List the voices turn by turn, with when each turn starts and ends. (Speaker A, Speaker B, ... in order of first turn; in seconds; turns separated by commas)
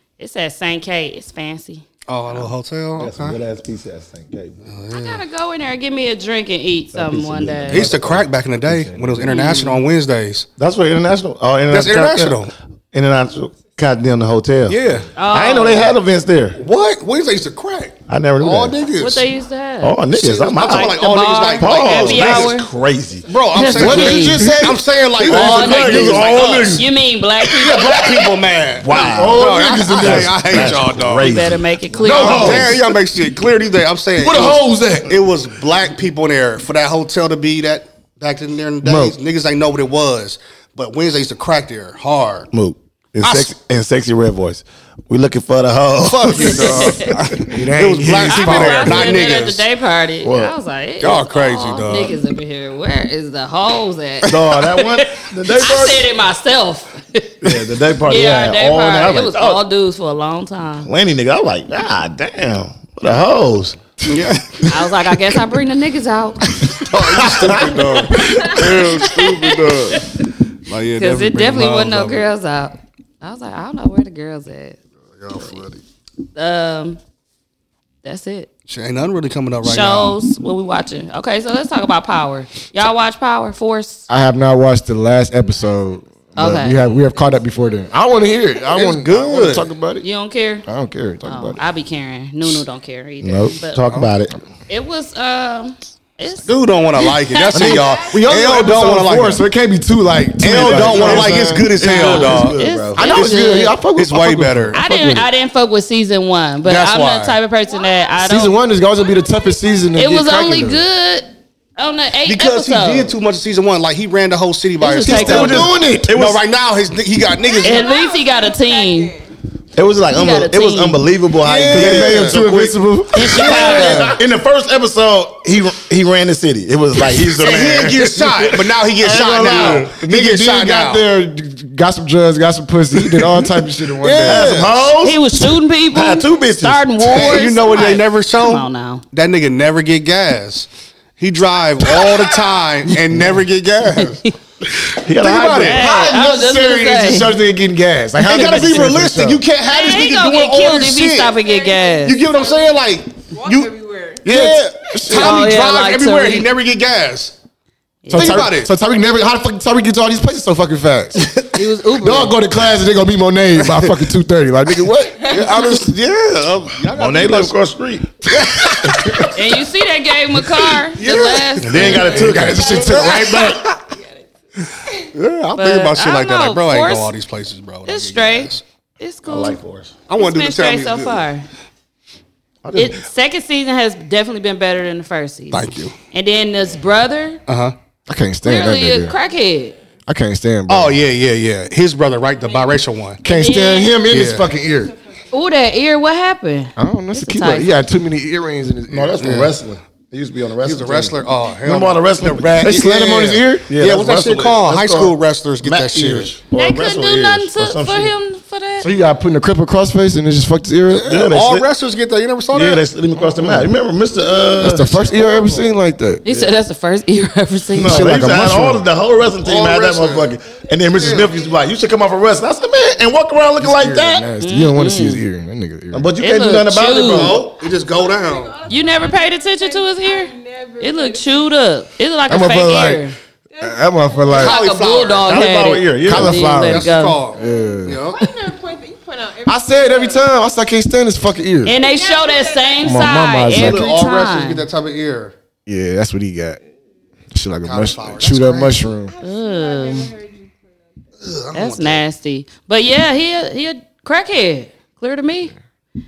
Speaker A: 0.2-2.5, Speaker B: 2.1-3.4, Speaker C: 3.0-4.6, Speaker B: 4.7-5.2, Speaker A: 4.9-7.9, Speaker C: 6.9-8.2, Speaker D: 7.5-9.4, Speaker B: 7.7-10.5, Speaker A: 9.3-9.8, Speaker C: 10.6-16.6, Speaker B: 11.7-12.5, Speaker B: 14.7-15.1, Speaker A: 15.1-15.9, Speaker B: 16.6-19.2, Speaker C: 18.1-18.8, Speaker A: 18.9-22.7, Speaker C: 19.8-23.3, Speaker B: 20.1-22.6, Speaker B: 23.3-26.9, Speaker A: 23.5-24.5, Speaker D: 23.7-26.1, Speaker C: 25.2-26.9, Speaker A: 25.3-28.1, Speaker B: 27.4-31.3, Speaker C: 28.8-32.7, Speaker D: 29.0-30.9, Speaker A: 31.2-32.7, Speaker D: 32.0-32.8, Speaker B: 32.0-42.5, Speaker C: 34.3-34.6, Speaker C: 38.8-39.1, Speaker C: 42.5-47.4, Speaker B: 43.2-43.5, Speaker B: 46.0-49.6, Speaker A: 46.4-47.1, Speaker D: 47.3-49.3, Speaker A: 48.3-60.9, Speaker C: 50.2-50.6, Speaker B: 51.0-52.2, Speaker C: 54.2-56.1, Speaker C: 57.4-59.6, Speaker C: 60.8-63.8, Speaker B: 64.1-64.7, Speaker A: 64.7-66.4, Speaker B: 66.8-70.0, Speaker C: 66.9-68.9, Speaker D: 67.4-67.9, Speaker A: 68.2-70.1, Speaker B: 70.7-72.3, Speaker A: 71.0-74.8, Speaker B: 75.2-75.8, Speaker A: 76.3-77.0, Speaker A: 78.0-78.5, Speaker B: 78.7-80.2, Speaker A: 79.6-84.1, Speaker D: 84.1-90.0, Speaker A: 86.4-86.8, Speaker B: 88.7-89.7, Speaker A: 90.0-90.7, Speaker D: 90.6-91.6, Speaker A: 91.2-93.8, Speaker C: 93.2-94.4, Speaker A: 94.7-97.9, Speaker B: 96.5-99.4, Speaker D: 97.5-102.1, Speaker E: 97.7-98.3, Speaker B: 100.4-102.6, Speaker C: 100.6-103.0, Speaker A: 101.8-103.7, Speaker D: 103.0-105.3, Speaker B: 103.1-104.8, Speaker A: 104.7-108.5, Speaker B: 106.6-107.4, Speaker E: 107.7-108.2, Speaker D: 108.2-110.8, Speaker E: 109.0-109.9, Speaker A: 109.9-113.1, Speaker B: 112.2-117.9, Speaker A: 114.8-115.7, Speaker C: 115.1-116.4, Speaker D: 115.1-116.1, Speaker E: 117.4-119.3, Speaker A: 117.6-119.1, Speaker C: 119.8-129.9, Speaker A: 120.1-121.0, Speaker B: 121.4-122.4, Speaker D: 121.7-124.1, Speaker A: 123.1-124.1, Speaker B: 123.5-124.1, Speaker B: 127.2-131.0, Speaker D: 129.0-134.6, Speaker B: 134.0-134.9, Speaker C: 134.2-137.4, Speaker A: 135.0-139.0, Speaker B: 137.1-144.2, Speaker C: 145.0-145.9, Speaker D: 145.2-149.4, Speaker A: 145.5-147.3, Speaker B: 148.2-151.4, Speaker A: 149.6-152.2, Speaker E: 151.3-154.2, Speaker B: 152.0-153.7, Speaker B: 154.2-157.3, Speaker D: 154.2-155.4, Speaker A: 155.1-156.5, Speaker A: 158.0-158.5, Speaker D: 158.1-161.3, Speaker B: 158.1-158.7, Speaker A: 161.5-162.4, Speaker D: 162.0-165.9, Speaker B: 163.6-164.0, Speaker B: 165.3-167.6, Speaker C: 166.9-168.1, Speaker B: 168.2-169.3, Speaker D: 168.4-169.1, Speaker C: 168.9-169.3, Speaker A: 169.3-173.5, Speaker B: 170.9-172.4, Speaker C: 171.6-173.5, Speaker D: 171.7-173.8, Speaker E: 172.0-173.0, Speaker B: 175.1-178.6, Speaker A: 175.6-177.1, Speaker A: 177.9-179.6, Speaker C: 179.2-179.9, Speaker B: 180.1-181.2, Speaker A: 180.1-181.4, Speaker C: 182.6-183.0, Speaker A: 182.7-187.4, Speaker B: 185.5-185.9, Speaker B: 187.5-187.7, Speaker D: 188.1-189.2, Speaker A: 188.4-189.8, Speaker D: 190.1-191.0, Speaker B: 190.7-193.2, Speaker E: 192.5-192.8, Speaker D: 193.2-194.9, Speaker A: 193.3-194.1, Speaker E: 193.9-195.4, Speaker B: 194.1-194.5, Speaker A: 195.3-197.7, Speaker D: 196.8-199.2, Speaker C: 198.9-208.1, Speaker B: 199.2-199.5, Speaker B: 200.6-203.2, Speaker D: 202.5-203.7, Speaker B: 203.7-206.3, Speaker A: 206.5-208.9, Speaker D: 208.8-211.2, Speaker B: 210.9-212.8, Speaker C: 211.0-211.7, Speaker C: 212.5-215.6, Speaker D: 213.2-213.7, Speaker D: 214.6-216.5, Speaker A: 216.2-218.1, Speaker C: 217.7-224.3, Speaker D: 217.8-218.9, Speaker B: 219.4-220.3, Speaker E: 220.5-221.7, Speaker B: 220.9-221.4, Speaker D: 223.6-226.1, Speaker A: 224.4-225.2, Speaker C: 225.9-227.5, Speaker A: 226.2-227.4, Speaker B: 226.9-228.6, Speaker E: 227.6-231.6, Speaker A: 228.7-233.2, Speaker D: 232.3-233.0, Speaker E: 233.5-234.5, Speaker D: 233.6-234.6, Speaker B: 234.3-235.3, Speaker A: 234.3-237.2, Speaker C: 235.2-236.7, Speaker D: 236.0-238.0, Speaker B: 236.6-238.2, Speaker E: 237.3-240.3, Speaker D: 239.4-241.8, Speaker A: 241.6-244.7, Speaker E: 241.7-243.2, Speaker D: 242.8-244.0, Speaker B: 243.5-245.3, Speaker D: 245.7-246.6, Speaker D: 247.3-249.1, Speaker B: 247.6-248.9, Speaker E: 249.0-251.0, Speaker A: 249.2-250.1, Speaker B: 251.2-252.0, Speaker A: 251.5-255.5